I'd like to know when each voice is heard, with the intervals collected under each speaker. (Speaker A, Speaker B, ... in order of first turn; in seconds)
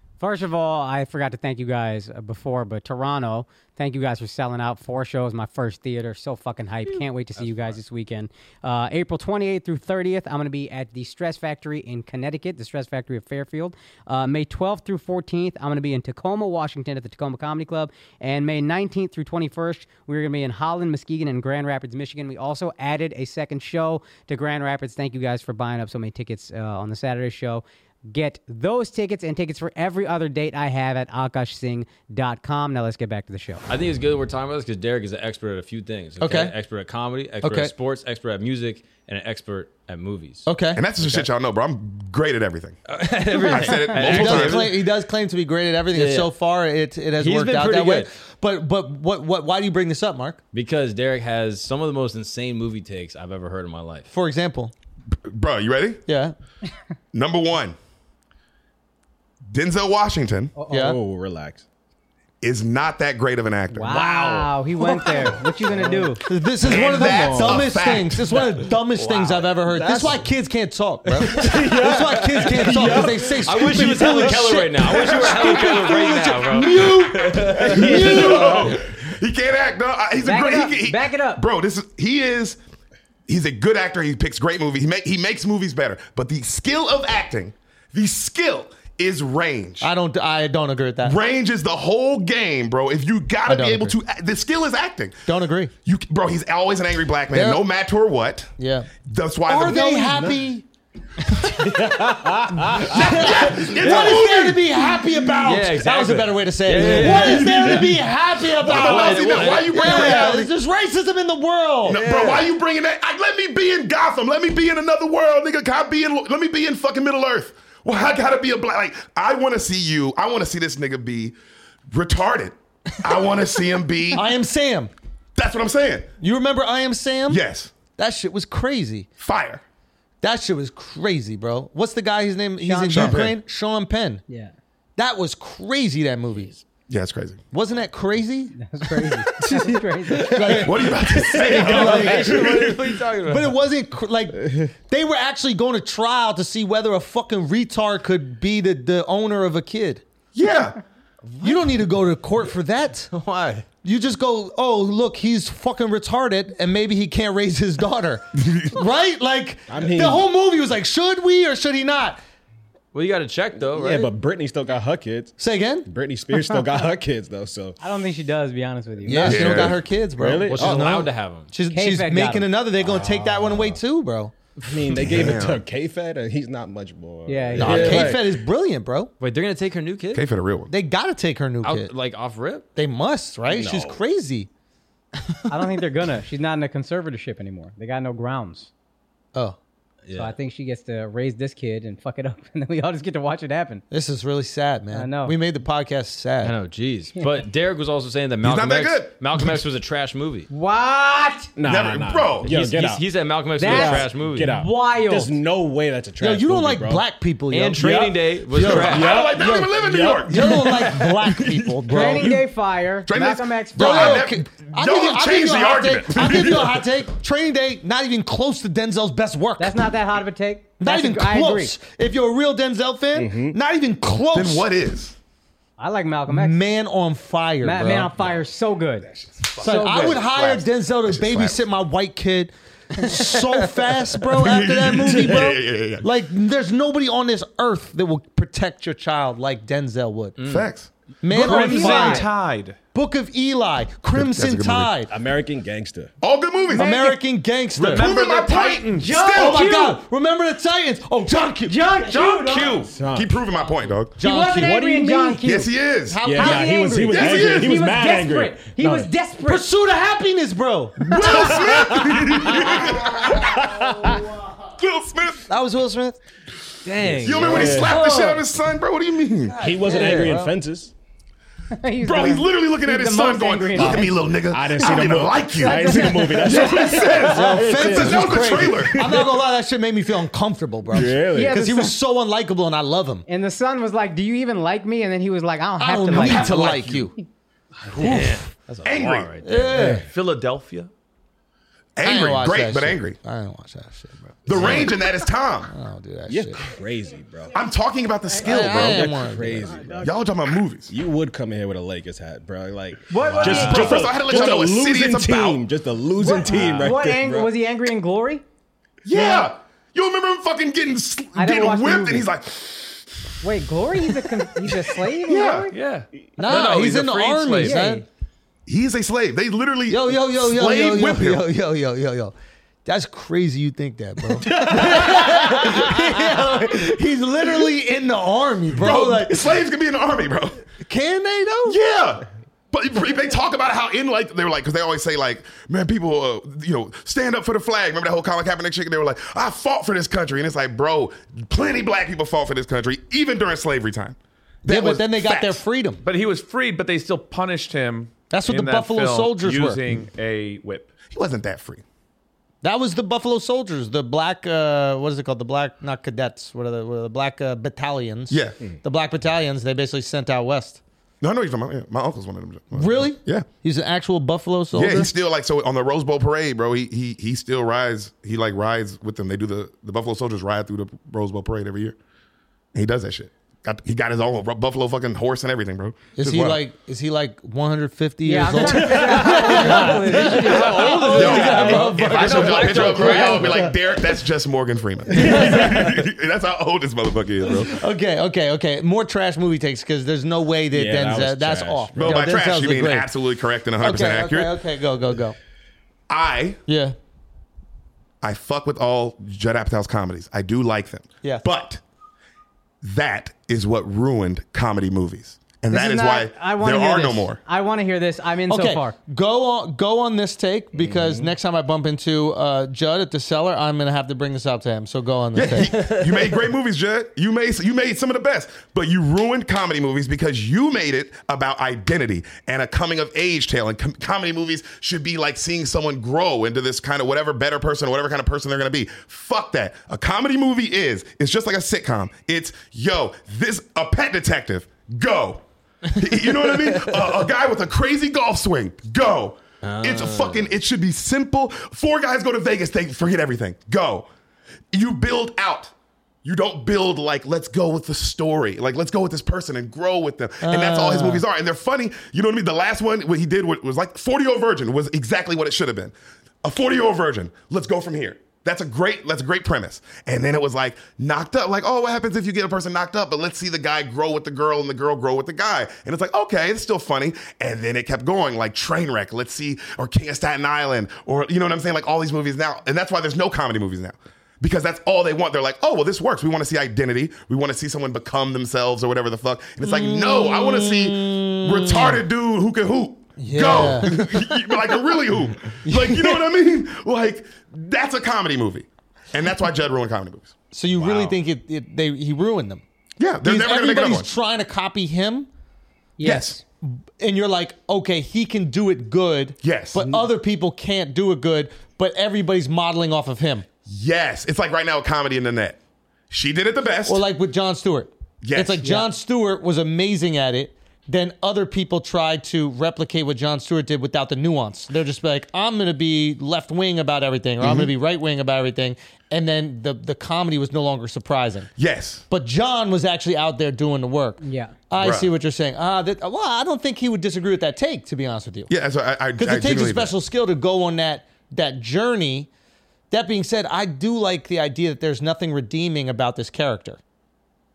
Speaker A: 0.2-33.6, 60.5-60.9, 63.7-66.2, 80.2-81.4, 132.6-133.2, 138.6-140.6, 167.8-169.6, 171.7-172.5, 177.2-178.1, 185.5-188.7, 190.1-193.8, 194.9-195.3, 200.5-201.5, 203.6-205.3, 211.9-214.3, 219.6-221.7, 225.8-226.6, 227.6-229.1, 229.6-230.2, 241.3-242.3, 246.7-247.2, 248.8-250.0, 251.7-252.9, 254.2-255.7, 256.3-259.6, 271.7-274.3, 275.6-277.2, 281.3-281.9, 283.3-286.5, 303.1-304.1, 306.2-308.4, 311.3-312.3, 313.4-315.7, 317.6-318.0, 378.2-382.1, 405.7-408.9, 496.0-496.4, 508.6-508.9, 524.2-524.5
Speaker B: 33.7-41.3, 42.9-44.8, 45.9-46.3, 47.2-48.1, 50.5-54.1, 63.9-64.5, 69.0-69.4, 71.2-71.5, 72.7-78.1, 101.3-102.4, 103.8-104.2, 105.4-108.0, 108.6-110.4, 111.9-112.5, 141.4-143.6, 153.1-153.7, 162.9-164.1, 170.5-171.5, 179.2-180.2, 181.6-182.7, 190.1-190.3, 196.4-200.5, 202.4-204.6, 207.5-209.2, 240.4-240.7, 266.8-267.9, 269.9-270.4, 287.9-289.9, 306.5-306.9, 379.4-383.7, 415.6-416.4, 439.6-440.5
Speaker C: 36.2-36.5, 37.4-37.7, 40.5-40.8, 43.9-50.4, 54.1-54.7, 56.1-56.3, 60.7-61.0, 66.2-78.8, 89.8-91.2, 93.5-94.0, 95.3-95.7, 97.3-97.6, 98.6-98.9, 99.5-100.6, 102.5-112.0, 124.1-124.9, 126.2-127.4, 128.0-129.1, 130.2-134.2, 135.0-136.5, 137.5-138.6, 139.4-150.0, 151.4-153.1, 153.8-162.2, 165.4-165.9, 169.0-174.3, 177.6-179.1, 180.7-181.9, 182.8-184.5, 193.9-196.6, 206.2-212.4, 213.7-219.9, 220.8-224.7, 226.3-228.1, 229.6-240.4, 241.2-242.3, 242.9-245.1, 246.7-248.1, 249.2-252.7, 254.2-254.9, 256.1-257.0, 259.4-264.5, 265.4-266.2, 267.9-268.4, 269.4-270.5, 277.3-283.2, 285.8-287.1, 287.9-288.5, 289.4-290.0, 292.0-295.0, 295.6-296.6, 298.4-299.9, 316.4-318.0, 319.9-322.3, 322.9-329.6, 330.8-331.8, 344.6-346.0, 348.3-350.0, 352.6-360.8, 362.7-365.1, 376.1-383.7, 385.1-386.0, 387.4-393.1, 393.8-395.4, 396.7-396.9, 408.5-415.7, 450.4-451.2, 479.6-482.0, 483.2-484.6, 485.6-486.3, 490.5-492.6, 493.2-495.3, 496.1-503.4, 506.9-521.5, 522.1-528.5, 529.2-532.3, 532.9-536.8
Speaker D: 40.7-42.8, 43.4-44.7, 55.1-56.0, 57.1-57.8, 59.5-60.5, 62.4-63.9, 66.6-68.3, 77.8-82.6, 83.3-89.9, 91.0-95.2, 95.8-98.5, 99.0-100.3, 102.8-104.9, 106.8-110.5, 111.8-121.3, 121.9-124.2, 125.3-126.1, 127.3-127.7, 129.2-129.6, 132.9-133.4, 136.9-137.4, 140.4-142.7, 150.3-150.8, 169.2-169.8, 174.9-175.6, 180.1-180.7, 198.4-199.1, 201.6-202.5, 208.6-212.4, 213.1-216.8, 224.3-225.2, 229.1-231.6, 234.3-236.1, 240.4-240.9, 244.1-244.9, 246.2-246.9, 247.9-249.7, 252.4-254.2, 255.4-256.2, 257.1-257.8, 261.1-263.6, 264.8-265.5, 267.2-269.6, 272.0-279.0, 286.1-287.1, 288.8-289.3, 291.9-293.1, 294.4-295.7, 297.5-299.2, 300.0-300.9, 303.4-305.6, 309.0-313.1, 315.2-315.7, 318.7-321.4, 328.7-330.6, 331.6-345.6, 351.1-351.8, 358.3-358.6, 361.2-363.4, 364.7-371.9, 372.7-376.6, 380.8-387.8, 391.9-394.5, 396.1-396.6, 398.2-401.8, 402.8-407.4, 415.3-444.1, 444.7-445.7, 446.2-490.3, 493.0-494.1, 496.0-496.4, 499.4-500.0, 503.6-505.6, 506.1-507.0, 508.2-508.7, 517.4-517.7, 521.6-522.0, 524.8-525.1, 528.5-529.9
Speaker E: 60.7-61.6, 65.0-66.2, 66.7-67.7, 69.6-70.2, 71.2-74.5, 77.4-78.8, 100.0-100.3, 101.8-102.8, 139.4-142.5, 144.4-144.7, 159.7-160.2, 163.7-167.8, 170.2-171.0, 172.8-173.8, 174.6-178.3, 183.5-184.0, 201.6-203.0, 203.6-207.0, 208.8-210.9, 223.1-223.6, 245.1-246.1, 252.9-253.4, 254.6-255.5, 256.2-259.1, 261.2-262.6, 263.2-264.3, 267.1-268.1, 269.6-270.9, 274.4-279.3, 280.9-281.6, 289.7-290.1, 296.3-297.5, 298.6-300.1, 300.9-307.5, 390.7-392.2
Speaker F: 229.7-230.2, 241.3-242.8, 247.8-249.2, 252.3-252.9, 289.8-290.9, 315.7-317.8, 346.0-350.9